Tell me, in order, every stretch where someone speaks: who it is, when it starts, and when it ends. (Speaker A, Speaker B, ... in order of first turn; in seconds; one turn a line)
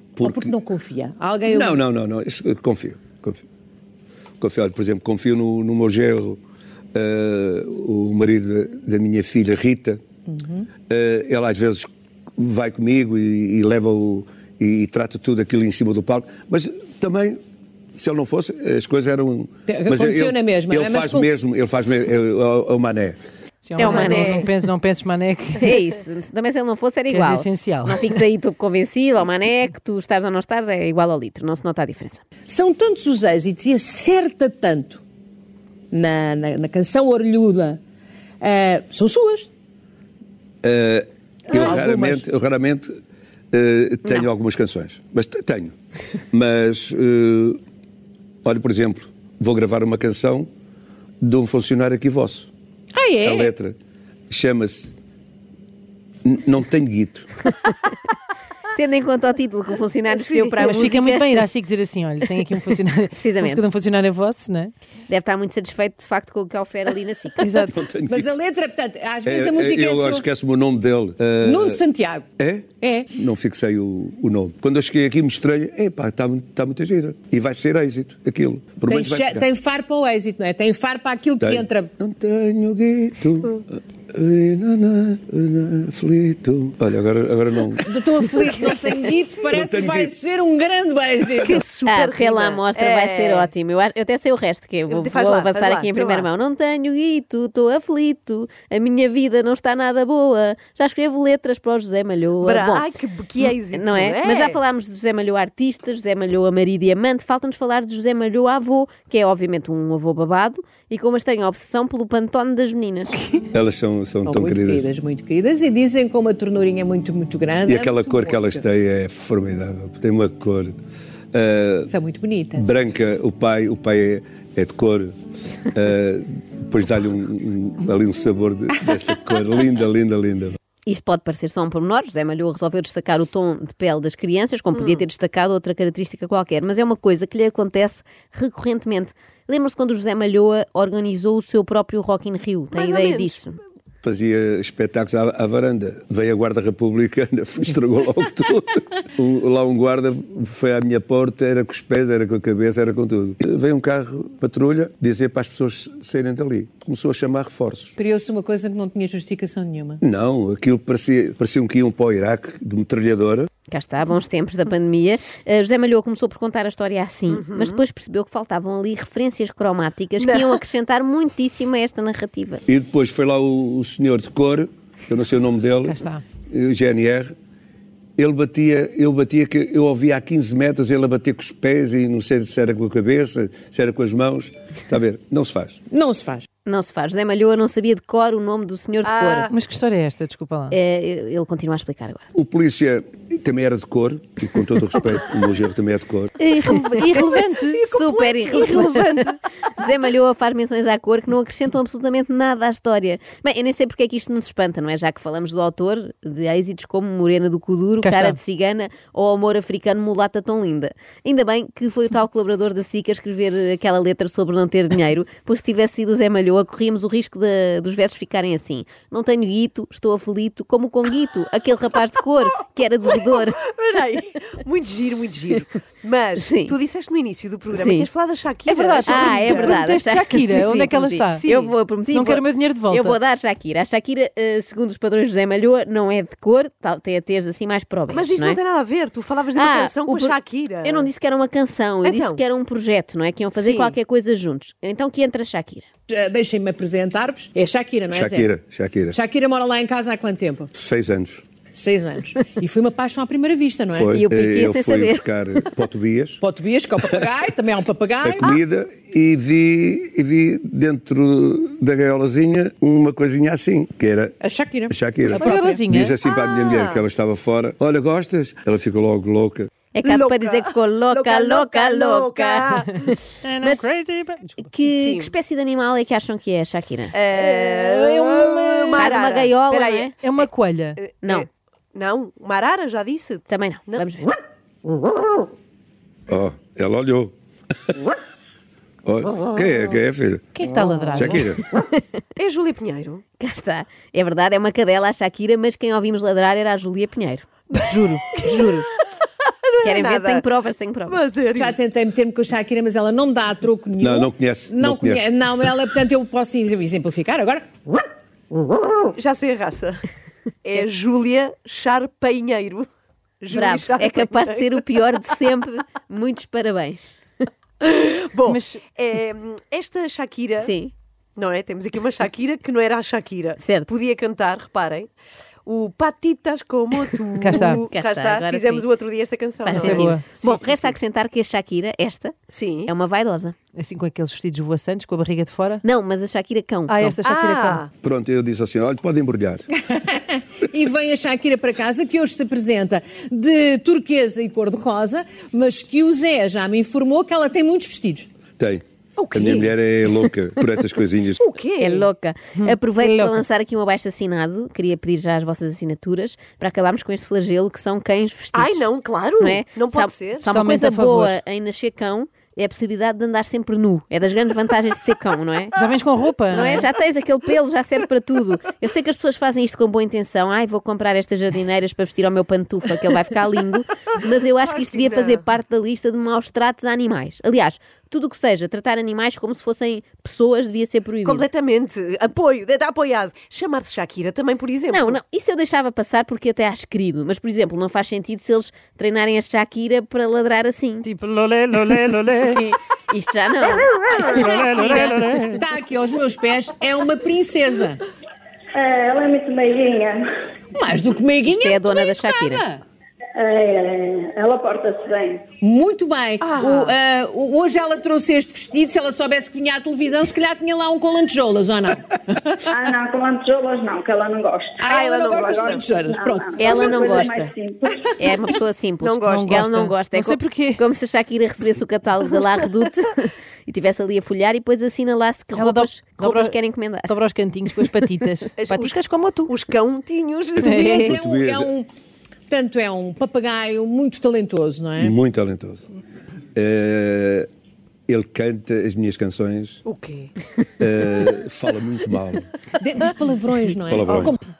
Speaker A: 0.1-0.6
Speaker B: 0.2-1.8
Speaker A: 1.4-3.5
Speaker A: 4.4-6.4
Speaker A: 6.9-10.0
Speaker B: 10.3-10.7
Speaker A: 10.9-17.4
Speaker A: 17.9-23.2
Speaker B: 19.7-21.3
Speaker C: 23.6-25.8
Speaker D: 23.8-24.5
Speaker D: 25.6-32.2
Speaker C: 27.1-28.2
Speaker B: 32.5-35.0
Speaker B: 35.9-37.8
Speaker B: 38.4-39.5
Speaker A: 40.6-42.9
Speaker B: 41.5-42.2
Speaker A: 43.5-45.8
Speaker A: 46.3-47.6
Speaker A: 48.4-50.5
Speaker A: 51.2-52.5
Speaker B: 52.9-53.5
Speaker A: 53.2-53.8
Speaker A: 54.3-54.9
Speaker A: 56.2-57.3
Speaker D: 58.7-61.5
Speaker E: 60.1-60.8
Speaker C: 60.6-64.7
Speaker D: 63.1-63.6
Speaker D: 65.1-67.6
Speaker B: 67.4-70.2
Speaker A: 67.7-68.3
Speaker A: 69.2-71.8
Speaker B: 71.4-72.2
Speaker A: 72.4-79.5
Speaker B: 72.8-73.1
Speaker B: 78.9-81.9
Speaker A: 81.4-87.9
Speaker B: 87.8-91.6
Speaker A: 89.5-90.1
Speaker E: 91.4-93.5
Speaker D: 91.9-102.9
Speaker E: 94.9-96.3
Speaker E: 102.4-104.6
Speaker D: 103.7-113.2
Speaker A: 113.5-114.9
Speaker B: 114.2-118.6
Speaker A: 117.7-120.8
Speaker A: 121.3-121.9
Speaker B: 121.9-122.7
Speaker A: 122.5-125.2
Speaker A: 125.7-130.6
Speaker D: 130.9-143.6
Speaker E: 142.7-143.4
Speaker A: 144.0-157.9
Speaker B: 158.0-160.0
Speaker A: 160.0-163.5
Speaker D: 163.7-172.6
Speaker E: 167.3-167.8
Speaker E: 170.2-170.6
Speaker A: 172.7-177.3
Speaker C: 175.9-176.2
Speaker A: 178.2-185.8
Speaker B: 185.9-186.5
Speaker D: 186.7-189.5
Speaker E: 189.0-189.5
Speaker C: 189.5-190.8
Speaker D: 190.7-192.2
Speaker A: 192.3-196.3
Speaker C: 196.4-197.8
Speaker E: 196.9-199.2
Speaker D: 197.9-223.6
Speaker C: 208.0-208.3
Speaker E: 223.7-229.9
Speaker D: 226.4-226.7
Speaker D: 227.7-228.1
Speaker C: 228.7-231.4
Speaker D: 229.1-238.6
Speaker E: 231.3-231.7
Speaker C: 232.1-233.2
Speaker E: 238.1-241.1
Speaker D: 239.6-245.8
Speaker E: 242.0-242.4
Speaker E: 243.6-243.9
Speaker B: 246.1-248.5
Speaker A: 248.1-249.2
Speaker B: 249.1-250.7
Speaker A: 250.7-251.4
Speaker B: 251.7-254.2
Speaker A: 253.9-256.4
Speaker D: 254.1-255.3
Speaker B: 256.4-258.6
Speaker A: 258.2-264.4
Speaker B: 264.4-265.8
Speaker A: 264.9-269.7
Speaker C: 265.3-266.1
Speaker E: 266.2-267.0
Speaker D: 269.9-273.9
Speaker E: 270.0-273.1
Speaker C: 273.4-274.5
Speaker D: 274.6-277.1
Speaker E: 274.9-275.3
Speaker E: 277.1-280.1
Speaker D: 279.0-280.1
Speaker C: 280.2-281.0
Speaker E: 281.0-284.1
Speaker D: 283.5-284.4
Speaker E: 284.9-285.4
Speaker A: 286.3-287.3
Speaker A: 289.1-290.5
Speaker C: 290.6-291.6
Speaker A: 291.1-291.6
Speaker D: 291.5-292.0
Speaker E: 292.4-293.2
Speaker D: 293.4-298.9
Speaker E: 297.7-298.7
Speaker E: 299.4-300.5
Speaker D: 299.8-301.3
Speaker E: 301.1-301.8
Speaker B: 301.5-308.1
Speaker A: 304.0-305.3
Speaker E: 309.0-310.0
Speaker E: 310.6-312.9
Speaker E: 313.4-314.8
Speaker D: 313.5-317.2
Speaker E: 317.8-320.7
Speaker C: 318.4-318.8
Speaker D: 320.6-320.9
Speaker E: 321.4-325.1
Speaker D: 323.6-323.9
Speaker E: 325.7-330.9
Speaker C: 327.4-327.8
Speaker D: 327.8-328.9
Speaker D: 329.7-333.6
Speaker C: 329.7-330.2
Speaker E: 332.5-332.9
Speaker C: 333.8-335.8
Speaker D: 335.8-337.2
Speaker C: 336.9-337.8
Speaker E: 337.2-337.9
Speaker A: 338.0-339.7
Speaker B: 339.8-348.3
Speaker A: 348.6-351.4
Speaker E: 349.2-349.7
Speaker E: 351.4-352.1
Speaker D: 351.8-365.8
Speaker C: 352.6-353.4
Speaker E: 358.5-360.5
Speaker C: 360.4-361.4
Speaker C: 365.8-366.9
Speaker D: 366.5-381.4
Speaker E: 374.6-375.4
Speaker E: 381.2-385.2
Speaker D: 384.9-391.1
Speaker C: 391.1-392.6
Speaker D: 391.9-395.1
Speaker E: 394.1-394.4
Speaker C: 394.2-395.6
Speaker B: 394.2-398.0
Speaker F: 398.7-400.3
Speaker B: 400.7-402.8
Speaker D: 401.4-402.6
Speaker F: 403.3-405.4
Speaker B: 405.6-412.6
Speaker E: 406.4-407.0
Speaker F: 412.7-414.8
Speaker B: 414.8-417.3
Speaker E: 414.8-415.9
Speaker F: 415.4-418.1
Speaker D: 416.6-417.5
Speaker D: 418.2-427.2
Speaker E: 419.0-419.6
Speaker C: 419.3-420.8
Speaker C: 425.5-429.5
Speaker D: 427.8-428.0
Speaker E: 428.6-430.8
Speaker B: 430.6-431.9
Speaker C: 430.6-431.1
Speaker A: 431.0-431.7
Speaker B: 432.5-435.1
Speaker A: 435.0-435.8
Speaker A: 436.6-437.5
Speaker A: 438.1-439.8
Speaker E: 439.8-440.3
Speaker A: 440.8-442.5
Speaker B: 442.8-444.5
Speaker A: 443.9-444.3